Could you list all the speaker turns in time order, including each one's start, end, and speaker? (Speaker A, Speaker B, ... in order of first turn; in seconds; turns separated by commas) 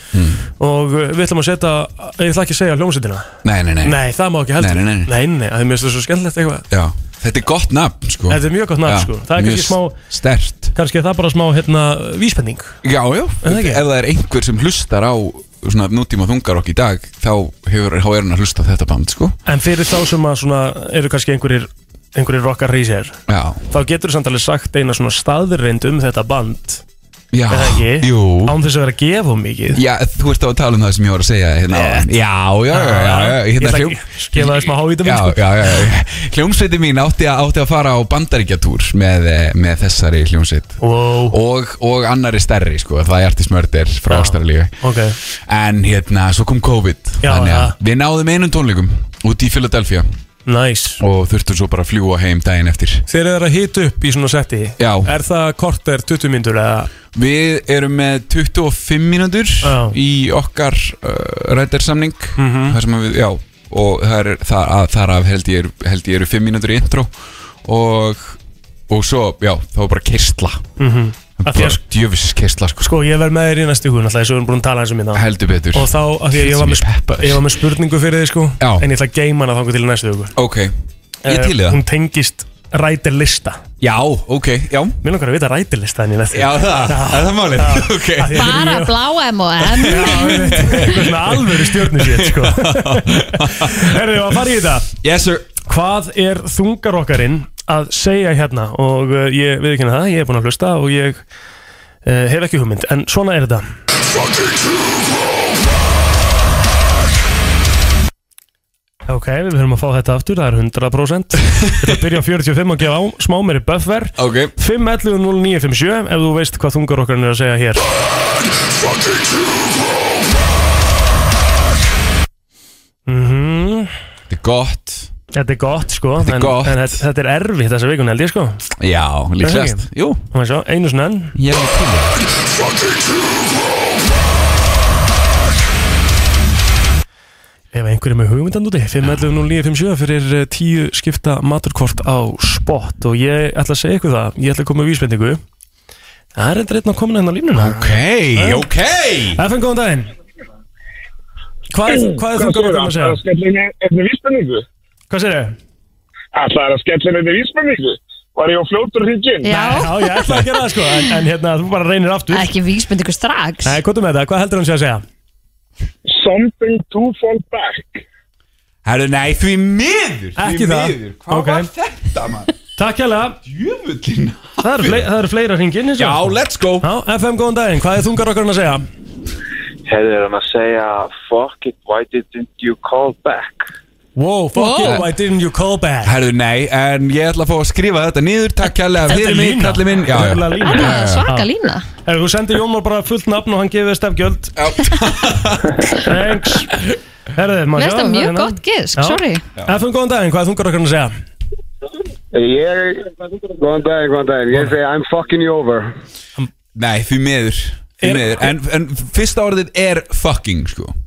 Speaker A: 0.1-0.4, Speaker B: 0.6-6.7, Speaker A: 3.4-5.2, Speaker A: 6.7-10.7, Speaker B: 8.3-10.0, Speaker B: 10.7-12.8, Speaker A: 12.8-19.4, Speaker B: 13.4-13.8, Speaker B: 19.5-23.2, Speaker A: 23.3-23.6, Speaker B: 23.7-26.8, Speaker A: 27.3-28.6, Speaker B: 27.5-29.8, Speaker A: 29.7-50.1, Speaker B: 31.7-32.1, Speaker B: 32.7-35.9, Speaker B: 40.8-41.4, Speaker B: 44.1-45.2, Speaker B: 47.2-47.8, Speaker B: 50.5-51.0, Speaker A: 51.0-53.0, Speaker B: 53.1-56.9, Speaker A: 54.8-55.1, Speaker A: 57.1-67.1, Speaker B: 59.6-60.0, Speaker B: 62.4-62.8, Speaker A: 67.6-70.7, Speaker B: 70.8-71.8, Speaker A: 71.4-73.0, Speaker B: 72.8-80.3, Speaker A: 75.1-77.5, Speaker A: 78.6-78.9, Speaker A: 80.4-80.7, Speaker B: 81.2-83.6, Speaker A: 81.3-81.8, Speaker A: 83.8-85.0, Speaker B: 85.0-89.0, Speaker A: 86.3-88.6, Speaker C: 88.3-91.0, Speaker B: 89.6-94.9, Speaker A: 89.8-93.9, Speaker A: 95.0-95.6, Speaker B: 95.7-101.2, Speaker B: 102.0-103.6, Speaker B: 109.1-117.9, Speaker A: 111.6-112.0, Speaker A: 114.2-114.5, Speaker B: 123.1-123.9, Speaker A: 124.3-125.1, Speaker B: 125.3-128.7, Speaker A: 126.2-127.0, Speaker A: 128.8-130.2, Speaker B: 129.4-131.4, Speaker A: 131.3-132.2, Speaker B: 137.7-145.4, Speaker B: 146.3-148.7, Speaker A: 147.5-149.4, Speaker B: 149.3-150.1, Speaker B: 151.7-153.2, Speaker D: 151.9-154.7, Speaker B: 155.1-155.6, Speaker D: 156.3-159.5, Speaker C: 159.4-160.0, Speaker B: 159.5-162.5, Speaker C: 162.3-163.8, Speaker B: 163.7-165.0, Speaker D: 166.1-168.1, Speaker A: 168.8-172.5, Speaker B: 170.4-171.7, Speaker B: 172.8-173.4, Speaker A: 173.4-175.1, Speaker B: 174.6-178.8, Speaker A: 176.0-176.9, Speaker E: 179.9-183.7, Speaker B: 184.2-186.2, Speaker C: 184.6-184.9, Speaker A: 184.8-185.1, Speaker A: 186.0-191.3, Speaker B: 189.0-191.5, Speaker C: 190.6-191.9, Speaker B: 192.1-194.6, Speaker A: 194.6-196.0, Speaker B: 195.9-196.8, Speaker B: 197.3-201.1, Speaker C: 197.8-199.4, Speaker F: 202.3-205.9, Speaker A: 206.8-210.9, Speaker B: 208.0-208.5